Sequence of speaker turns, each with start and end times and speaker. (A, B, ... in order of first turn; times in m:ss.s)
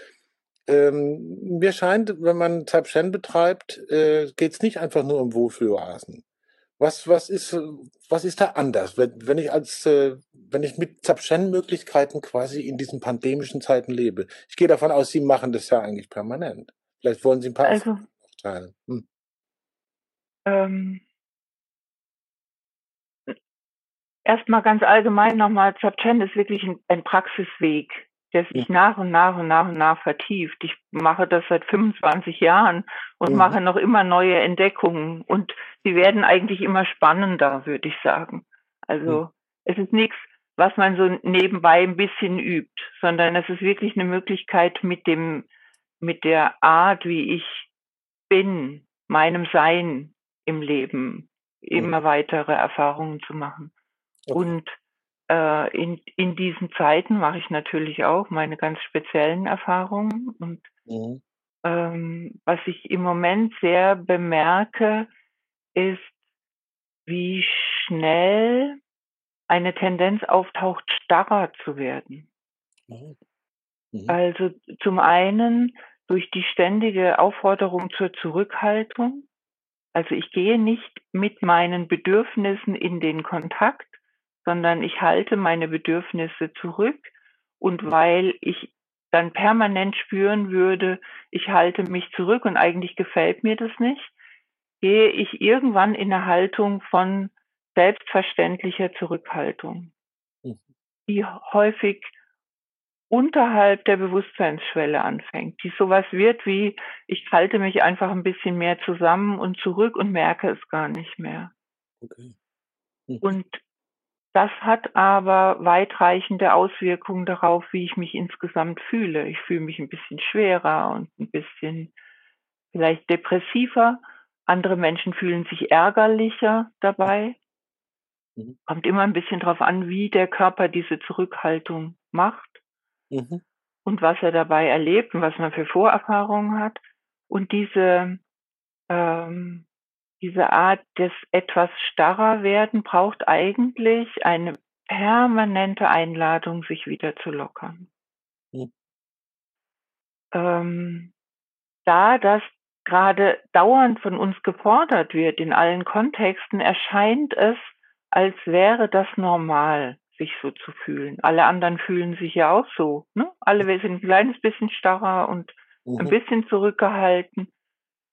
0:00.7-0:06.2 A
0:06.8-0:19.0 A
0:17.7-0:18.0 B
0:20.5-0:21.0 B
0:24.3-0:45.5 B
0:33.3-0:33.6 A
0:46.0-0:47.7 B
0:48.3-0:53.7 B
0:54.3-0:54.8 B
0:55.3-1:00.7 B
1:00.9-1:01.2 A
1:01.6-1:05.1 B
1:05.8-1:06.2 B
1:07.1-1:08.8 B
1:09.5-1:12.3 B
1:12.9-1:13.2 A
1:13.9-1:14.2 A
1:14.1-1:19.3 B
1:20.0-1:34.1 B
1:34.8-1:39.9 B
1:41.1-1:42.1 B
1:43.1-1:51.5 B
1:52.0-1:52.3 A
1:53.1-1:53.3 A
1:53.2-1:53.6 B
1:54.3-2:01.9 B
2:02.7-2:07.4 B
2:08.7-2:12.6 B
2:13.1-2:13.4 A
2:13.8-2:18.2 B
2:18.9-2:19.7 B
2:20.2-2:27.9 B
2:30.3-2:31.1 B
2:31.8-2:47.5 B
2:45.9-2:46.2 A